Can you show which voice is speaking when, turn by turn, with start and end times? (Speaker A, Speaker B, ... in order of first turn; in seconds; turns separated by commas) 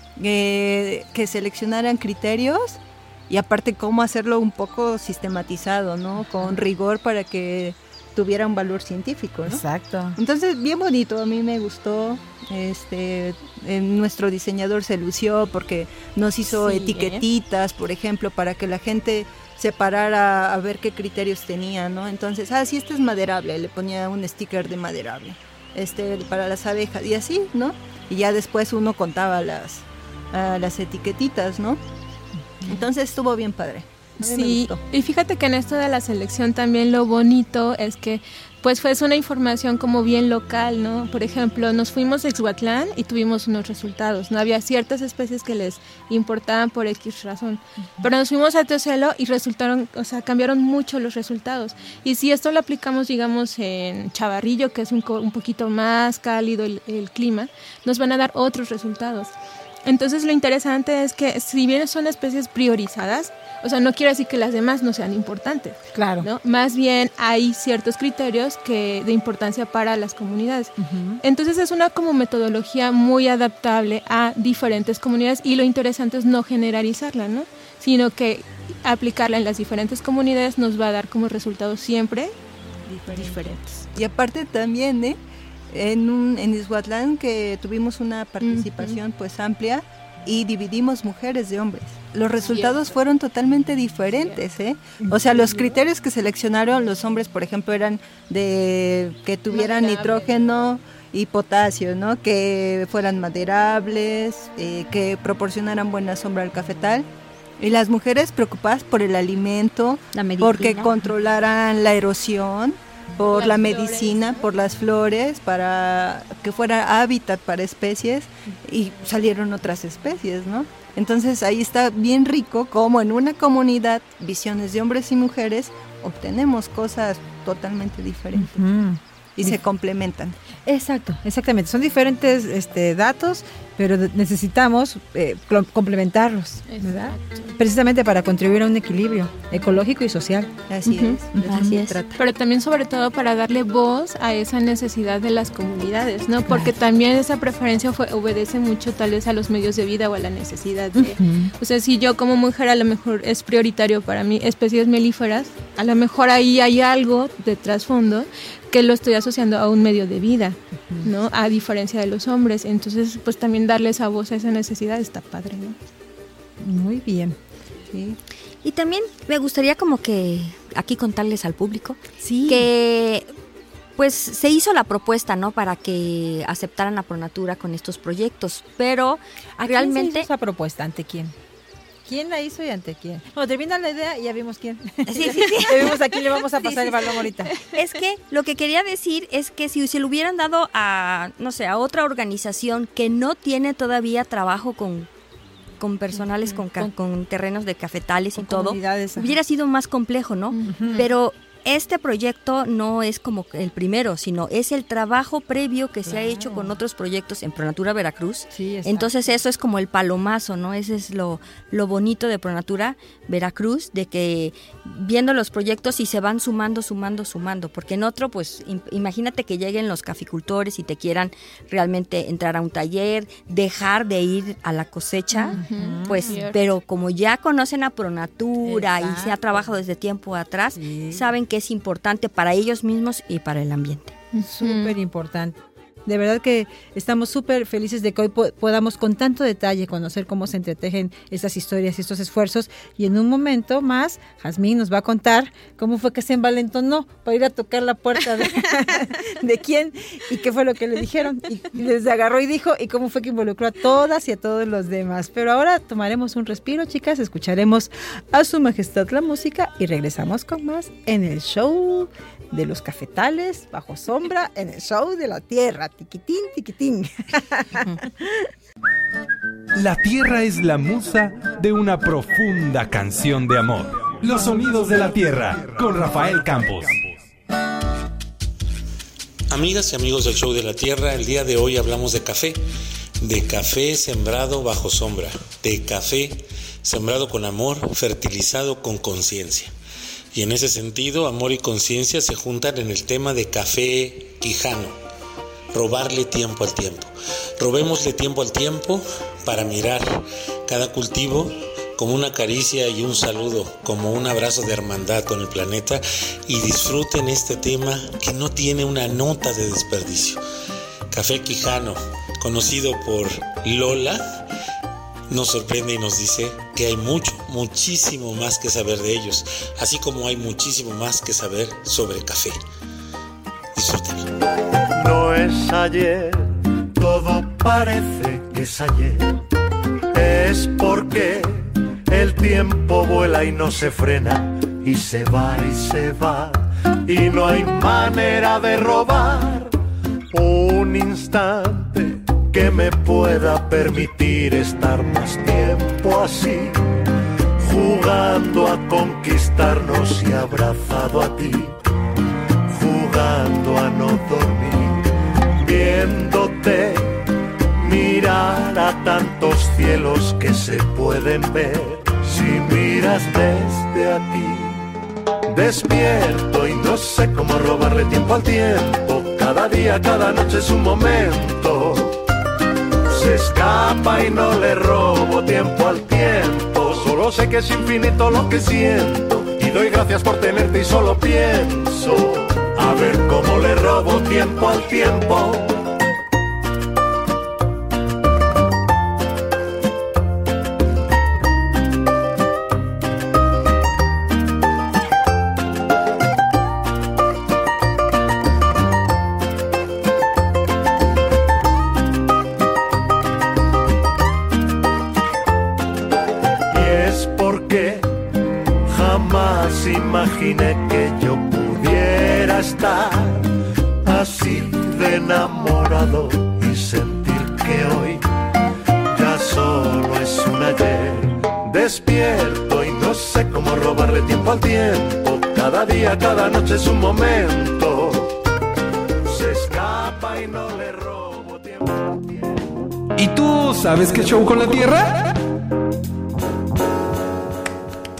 Speaker A: 0.2-9.6, Speaker B: 9.5-10.2, Speaker A: 10.2-31.8, Speaker C: 16.5-17.2, Speaker A: 32.7-34.8, Speaker C: 34.2-59.3, Speaker C: 59.9-82.3, Speaker B: 65.9-66.3, Speaker B: 70.8-71.2, Speaker B: 82.9-83.6, Speaker A: 83.1-85.2, Speaker C: 83.1-83.5, Speaker A: 85.7-107.1, Speaker C: 88.4-89.0, Speaker C: 92.4-92.9, Speaker C: 94.1-94.4, Speaker C: 95.3-95.8, Speaker C: 99.5-100.4, Speaker A: 107.6-128.7, Speaker D: 110.1-110.9, Speaker C: 113.2-114.5, Speaker B: 128.3-129.6, Speaker A: 129.4-130.4, Speaker B: 130.7-140.5, Speaker C: 136.7-137.6, Speaker A: 140.7-142.2, Speaker B: 141.4-141.8, Speaker D: 141.4-142.0, Speaker C: 142.2-165.8, Speaker B: 151.0-151.5, Speaker B: 166.6-167.4, Speaker A: 167.9-168.2, Speaker D: 168.6-173.3, Speaker B: 172.2-172.7, Speaker D: 174.0-180.3, Speaker B: 179.6-181.3, Speaker B: 182.1-187.5, Speaker D: 185.1-186.0, Speaker D: 186.6-195.1, Speaker D: 195.8-234.2, Speaker B: 198.3-199.4, Speaker C: 200.5-201.1, Speaker B: 200.7-201.0, Speaker B: 206.0-206.8, Speaker B: 208.5-209.3, Speaker C: 225.3-226.6, Speaker B: 225.5-226.4, Speaker B: 228.6-229.6, Speaker B: 230.8-231.2, Speaker C: 234.3-234.9, Speaker B: 234.4-268.5, Speaker E: 269.8-277.1, Speaker F: 279.5-282.6, Speaker F: 283.2-289.7, Speaker F: 290.3-294.9, Speaker F: 295.7-310.4, Speaker F: 311.1-314.4, Speaker F: 315.3-322.6, Speaker F: 323.8-324.3, Speaker G: 324.9-329.4, Speaker G: 330.1-339.7, Speaker G: 340.3-346.8, Speaker G: 347.6-351.8, Speaker G: 352.7-357.2, Speaker G: 357.8-364.9, Speaker G: 365.5-372.2, Speaker G: 373.1-385.9, Speaker G: 406.7-408.2, Speaker G: 408.9-413.5, Speaker G: 414.0-418.2, Speaker G: 419.1-428.3, Speaker G: 429.2-432.3, Speaker E: 433.2-435.3